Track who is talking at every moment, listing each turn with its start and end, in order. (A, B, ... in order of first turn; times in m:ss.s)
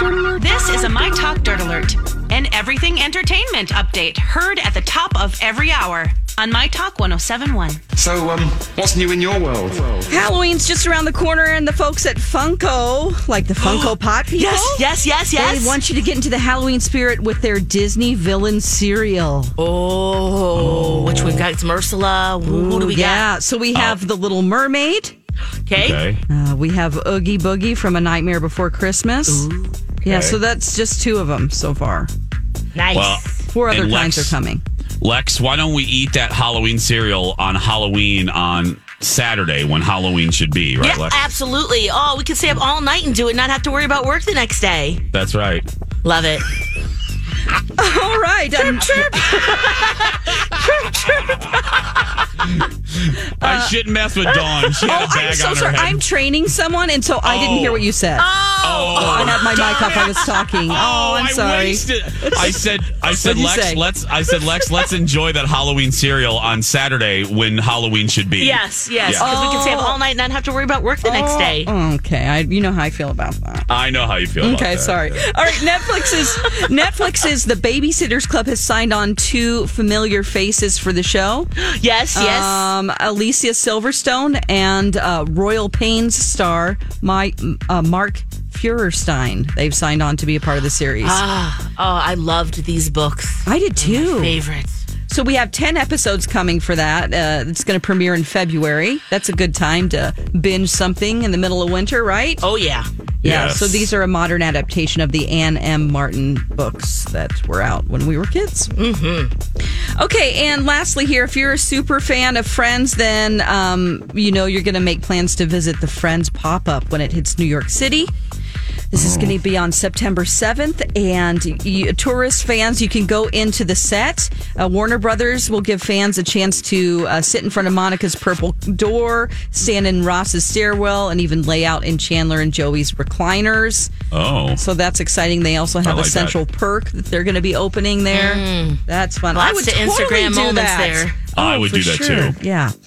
0:00.4-0:07.8 A
0:08.0-0:10.2 B
0:10.1-0:19.5 C
0:13.7-0:15.8 D
0:19.6-0:23.3 D
0:20.5-0:21.4 E
0:22.4-0:25.1 C
0:23.8-0:24.0 E
0:25.7-0:26.0 D
0:25.8-0:26.2 E
0:26.3-0:29.5 C
0:29.3-0:29.8 D
0:30.0-0:32.1 C
0:30.0-0:30.4 E
0:32.8-0:33.4 D
0:32.9-0:34.4 E
0:33.5-0:34.6 C
0:35.0-0:41.2 E
0:40.8-0:45.0 D
0:45.1-0:45.7 E
0:46.0-0:46.5 D
0:47.8-0:51.8 C
0:48.8-0:50.2 D
0:52.9-0:56.0 E
0:53.4-0:53.8 C
0:54.8-0:58.3 C
0:57.2-0:57.8 E
0:58.2-1:00.5 D
0:58.6-1:09.3 E
0:58.9-1:03.8 C
1:08.4-1:11.7 D
1:09.2-1:10.0 C
1:11.0-1:13.7 C
1:13.7-1:15.3 E
1:14.4-1:21.5 C
1:16.2-1:16.7 D
1:21.6-1:22.7 D
1:22.1-1:31.2 C
1:31.0-1:34.8 D
1:33.5-1:34.4 C
1:35.1-1:42.4 C
1:42.4-1:42.9 D
1:43.2-1:43.9 E
1:43.2-1:48.7 C
1:48.8-1:49.3 D
1:50.0-1:58.1 C
1:58.9-2:13.9 C
1:58.9-1:59.4 E
2:14.1-2:14.6 E
2:14.6-2:22.7 C
2:15.8-2:16.4 E
2:18.1-2:21.2 D
2:21.4-2:22.4 E